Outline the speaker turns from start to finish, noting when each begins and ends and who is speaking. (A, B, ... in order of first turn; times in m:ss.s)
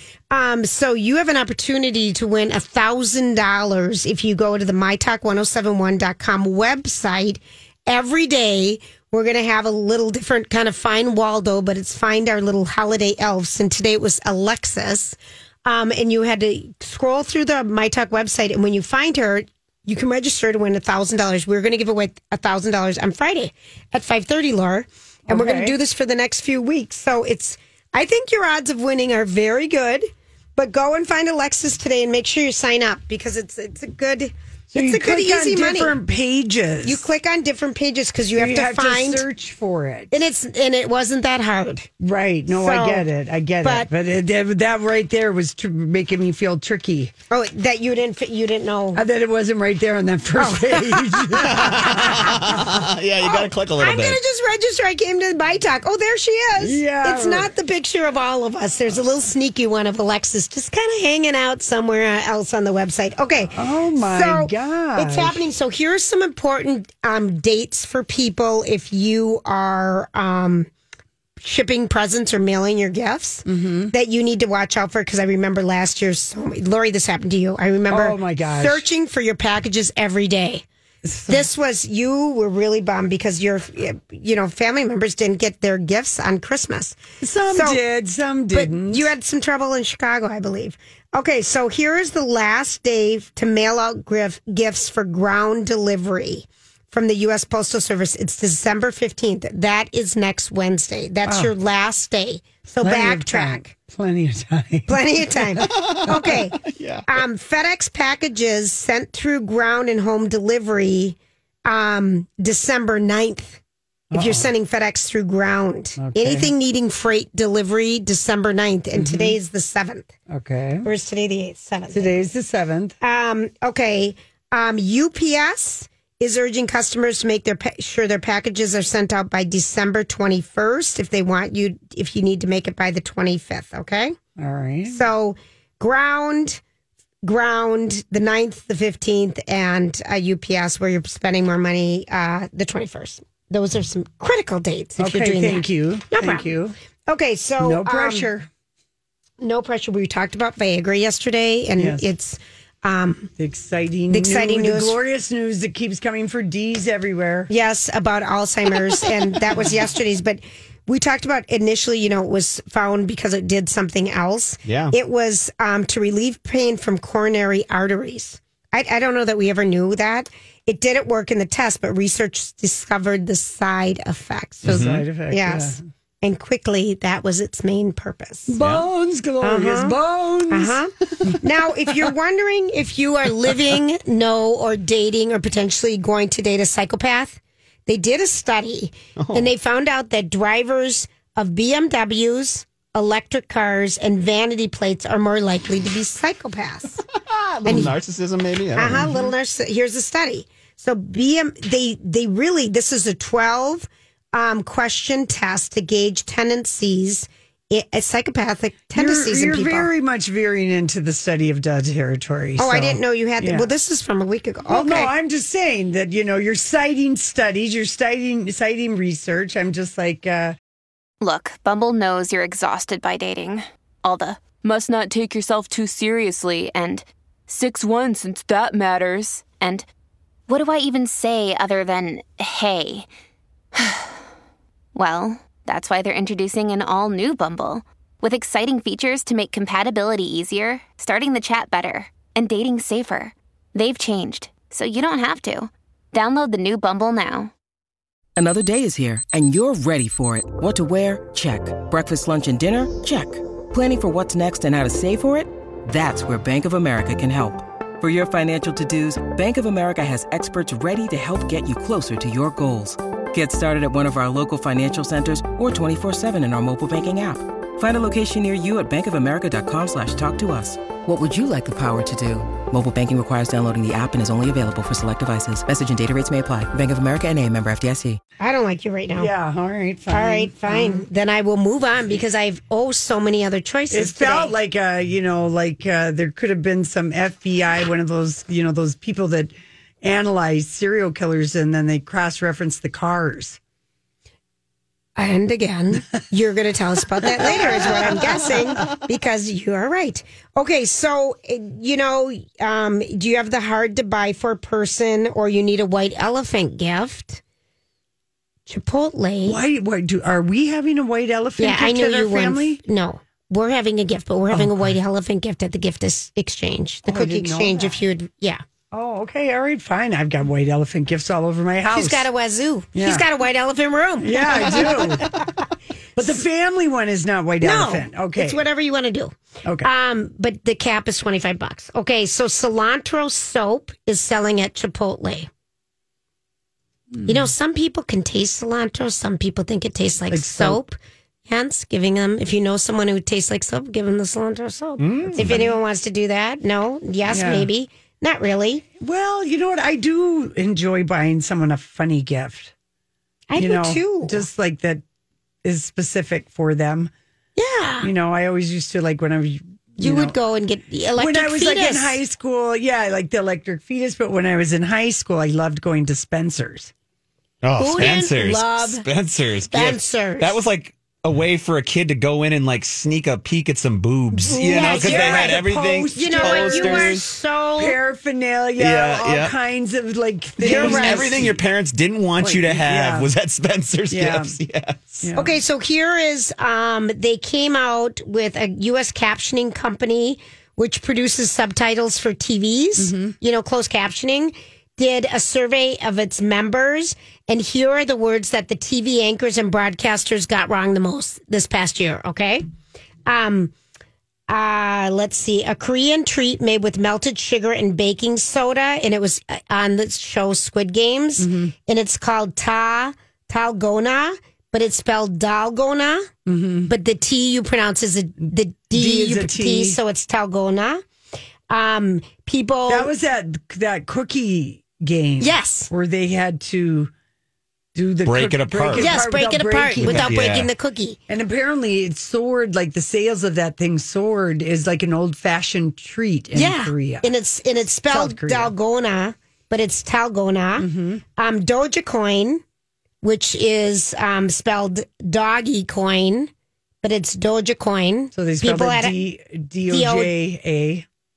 0:00.3-0:36.0 A
0:25.3-0:25.8 B
0:34.7-0:37.1 B
0:36.8-0:39.2 A
0:38.3-0:40.1 B
0:40.1-0:41.9 A
0:42.0-0:47.1 B
0:42.5-0:43.0 A
0:43.6-0:43.9 A
0:47.3-0:49.0 A
0:48.9-0:52.5 B
0:50.4-0:52.3 A
0:51.4-0:54.2 C
0:53.2-1:10.7 A
0:56.6-0:57.5 B
1:03.5-1:05.4 B
1:11.4-1:20.6 A
1:13.4-1:13.9 B
1:17.9-1:18.8 B
1:21.0-1:21.4 B
1:21.3-1:27.8 A
1:27.2-1:29.1 B
1:28.5-1:43.7 A
1:41.2-1:41.5 B
1:42.8-1:46.3 B
1:44.9-1:53.6 A
1:45.7-1:46.0 C
1:46.6-1:47.0 C
1:54.1-1:54.5 B
1:54.1-2:00.1 A
1:56.0-1:56.5 B
1:58.9-1:59.4 B
2:00.3-2:00.8 B
2:00.8-2:02.2 A
2:01.9-2:03.0 B
2:03.0-2:14.2 A
2:14.4-2:15.0 B
2:14.9-2:16.6 A
2:17.2-2:26.5 A
2:25.0-2:26.7 B
2:27.1-2:28.3 A
2:27.6-2:28.5 B
2:29.4-2:33.3 A
2:31.8-2:32.0 B
2:33.4-2:37.5 B
2:34.1-2:35.0 A
2:37.5-2:58.6 A
2:44.6-2:44.9 C
2:54.6-2:55.8 B
2:54.6-2:55.0 C
2:58.5-3:01.4 B
2:58.6-2:58.9 C
2:59.4-3:00.0 A
3:00.5-3:17.0 A
3:09.2-3:09.5 C
3:17.2-3:19.2 C
3:17.6-3:17.9 A
3:18.8-3:29.9 A
3:18.9-3:19.2 B
3:28.9-3:33.7 B
3:32.6-3:35.1 A
3:34.7-3:40.6 B
3:41.2-3:49.8 D
3:50.5-3:53.1 D
3:53.7-3:54.2 D
3:54.9-4:07.5 D
4:08.4-4:38.2 E
4:38.4-4:39.3 A
4:39.2-4:41.0 B
4:40.1-4:44.5 A
4:43.9-4:53.6 B
4:55.2-5:07.4 A
4:57.3-4:58.6 B
5:08.7-5:09.6 A
5:09.4-5:12.8 B
5:11.6-5:18.6 A
5:14.5-5:14.9 B
5:17.0-5:18.0 B
5:18.9-5:22.3 B
5:21.9-5:25.4 A
5:22.9-5:23.2 B
5:24.2-5:25.3 B
5:26.2-5:28.6 B
5:27.6-5:35.5 A
5:29.6-5:29.9 B
5:37.2-5:37.5 B
5:37.2-5:48.8 A
5:40.3-5:40.8 B
5:45.0-5:45.7 B
5:45.0-5:45.7 C
5:47.3-5:47.7 B
5:49.0-5:52.7 B
5:53.5-5:54.4 A
5:53.6-5:55.0 B
5:55.6-5:57.1 B
5:57.6-5:58.1 A
5:58.0-6:00.4 B
6:00.0-6:02.2 A
6:01.2-6:06.9 B
6:07.6-6:17.2 C
6:07.8-6:09.0 A
6:09.7-6:10.6 A
6:14.4-6:17.2 B
6:14.5-6:15.6 A
6:16.1-6:18.0 A
6:17.8-6:21.6 B
6:18.8-6:19.5 C
6:20.6-6:21.4 A
6:20.6-6:25.2 C
6:22.4-6:23.3 B
6:24.1-6:24.6 B
6:25.2-6:25.6 B
6:25.3-6:42.6 A
6:33.0-6:33.3 B
6:43.2-6:43.7 A
6:44.5-6:56.3 A
6:51.4-6:51.7 B
6:56.4-6:56.9 B
6:56.9-7:01.0 A
6:58.5-7:00.0 B
7:01.7-7:03.1 A
7:02.9-7:07.1 B
7:05.4-7:05.9 A
7:07.9-7:10.4 B
7:08.2-7:09.2 C
7:08.9-7:11.2 A
7:10.0-7:10.7 C
7:11.3-7:17.3 B
7:16.5-7:22.6 A
7:18.1-7:18.7 B
7:20.8-7:21.2 B
7:23.2-7:26.5 A
7:27.0-7:29.2 A
7:28.3-7:31.0 B
7:29.9-7:30.3 A